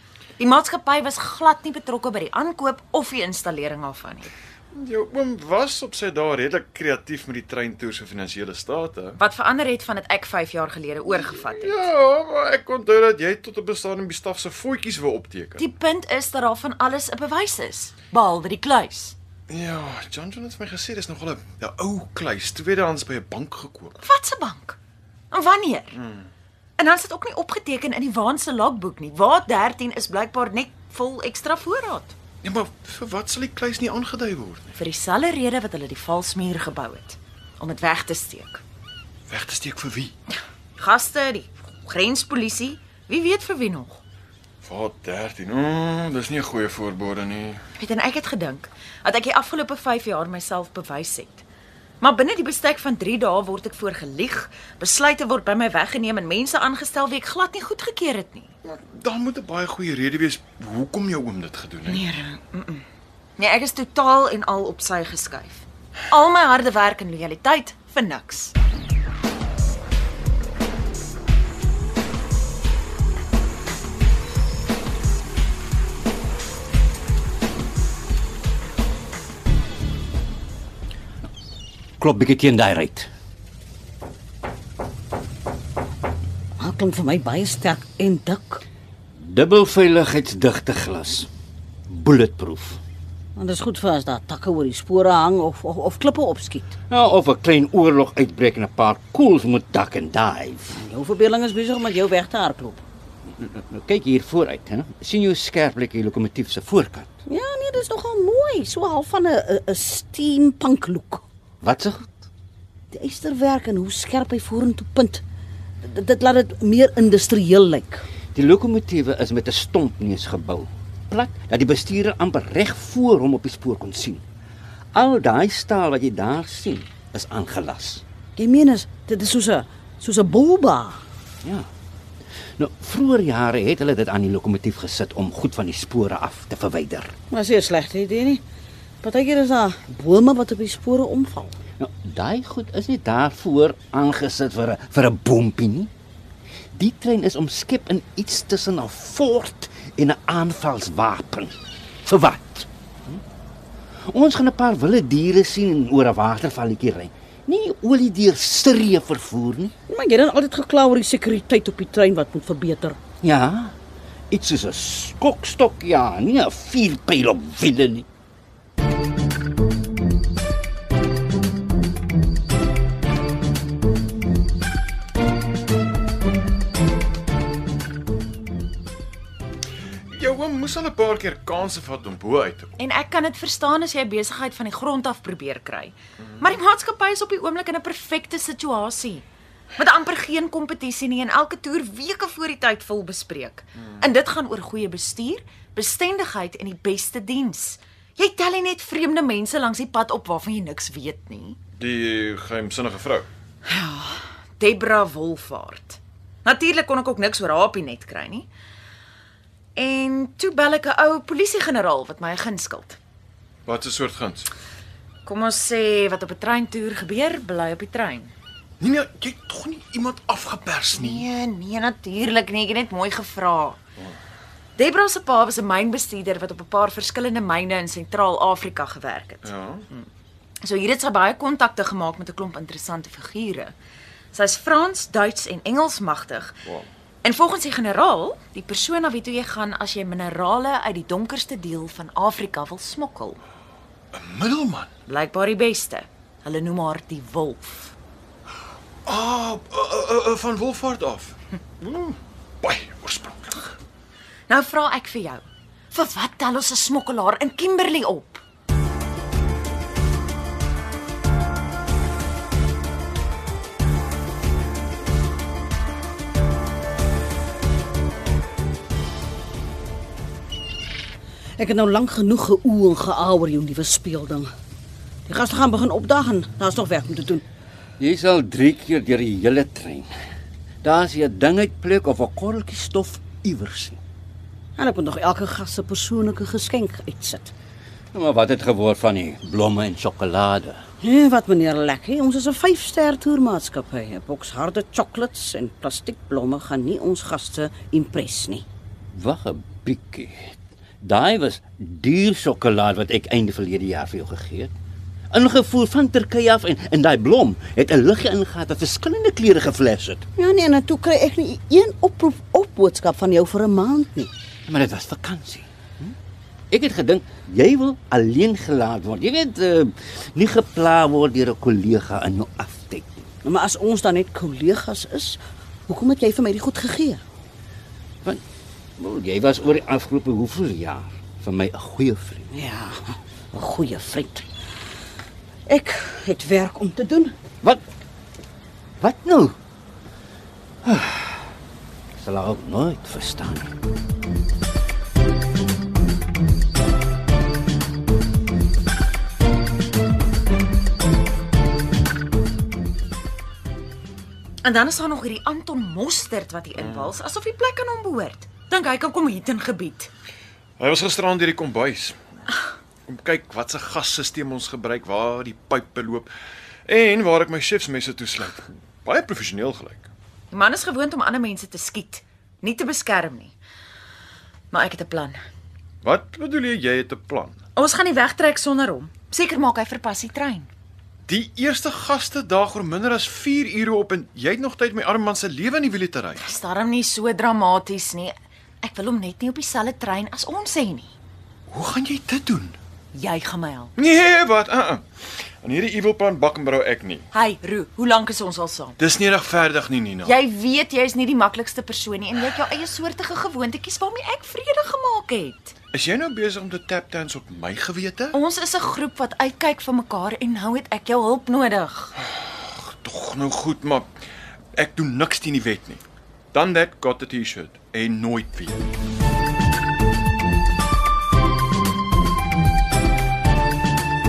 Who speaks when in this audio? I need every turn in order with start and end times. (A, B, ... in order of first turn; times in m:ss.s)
0:00.4-0:04.3 A
0:04.7-0:09.2 B
0:09.2-0:11.9 A
0:11.1-0:15.6 B
0:15.6-0:19.1 A
0:19.5-0:24.0 B
0:24.0-0:24.8 A
0:25.3-0:26.0 A
0:26.0-0:26.3 B
0:26.8-0:32.1 A
0:32.4-0:34.7 B
0:34.7-0:38.6 A
0:39.3-0:40.1 B
0:40.8-0:44.0 A
0:44.6-0:47.6 B
0:47.8-0:51.4 A
0:52.0-0:58.5 A
0:58.6-1:02.0 B
1:01.8-1:02.8 A
1:03.4-1:08.5 A
1:22.0-1:23.1 C
1:26.6-1:28.6 D
1:29.1-1:31.3 C
1:31.9-1:32.8 C
1:33.4-1:36.7 D
1:36.9-1:40.8 C
1:40.8-1:42.8 D
1:43.3-1:47.1 C
1:47.3-1:51.2 D
1:51.6-1:52.3 C
1:52.9-1:55.2 D
1:55.8-1:58.0 D
1:58.3-2:04.2 C
2:04.9-2:08.0 C
2:08.4-2:11.0 D
2:12.6-2:17.1 C
2:17.3-2:18.4 D
2:19.0-2:21.6 D
2:21.8-2:25.9 C
2:26.7-2:31.5 C
2:32.0-2:33.2 C
2:34.1-2:39.7 C
2:39.9-2:43.0 D
2:43.2-2:43.7 C
2:44.3-2:48.0 C
3:00.1-3:02.7 B
3:02.8-3:09.2 A
3:09.8-3:21.6 A
3:21.8-3:23.3 B
3:23.7-3:28.5 A
3:29.8-3:33.0 A
3:33.6-3:34.5 B
3:35.2-3:38.3 A
3:38.8-3:41.2 B
3:40.9-3:43.8 A
3:44.8-3:50.1 A
3:49.4-3:49.8 B
3:50.6-3:53.7 A
3:54.3-3:56.5 A
3:57.2-4:03.4 A
4:04.1-4:04.9 B
4:05.1-4:07.9 A
4:09.0-4:13.8 B
4:14.5-4:18.4 A
4:31.6-4:34.5 D
4:35.2-4:37.4 D
4:38.0-4:40.1 C
4:40.8-4:44.0 C
4:44.8-4:47.5 D
4:48.1-4:50.8 C
4:51.0-4:58.6 D
4:59.1-5:04.7 C
5:05.3-5:10.2 C
5:10.4-5:14.3 D
5:14.7-5:15.6 C
5:16.7-5:23.2 C
5:23.4-5:27.2 D
5:29.0-5:32.5 C
5:32.5-5:34.4 D
5:35.6-5:37.3 D
5:39.0-5:39.5 C
5:40.8-5:41.5 C
5:42.2-5:43.7 C
5:54.6-6:00.1 A
5:56.8-5:57.1 B
6:00.8-6:02.2 B
6:03.1-6:06.3 B
6:06.9-6:10.1 B
6:10.5-6:13.5 A
6:14.7-6:15.4 A
6:16.0-6:17.6 B
6:17.8-6:20.7 A
6:21.3-6:26.4 B
6:26.4-6:31.1 A
6:31.7-6:32.8 B
6:33.1-6:33.9 A
6:34.0-6:35.0 B
6:35.6-6:37.3 B
6:37.3-6:39.0 A
6:39.0-6:40.3 B
6:40.2-6:45.7 A
6:45.9-6:48.4 B
6:48.3-6:52.1 A
6:52.3-6:54.1 B
6:54.7-6:56.0 B
6:56.5-6:58.9 B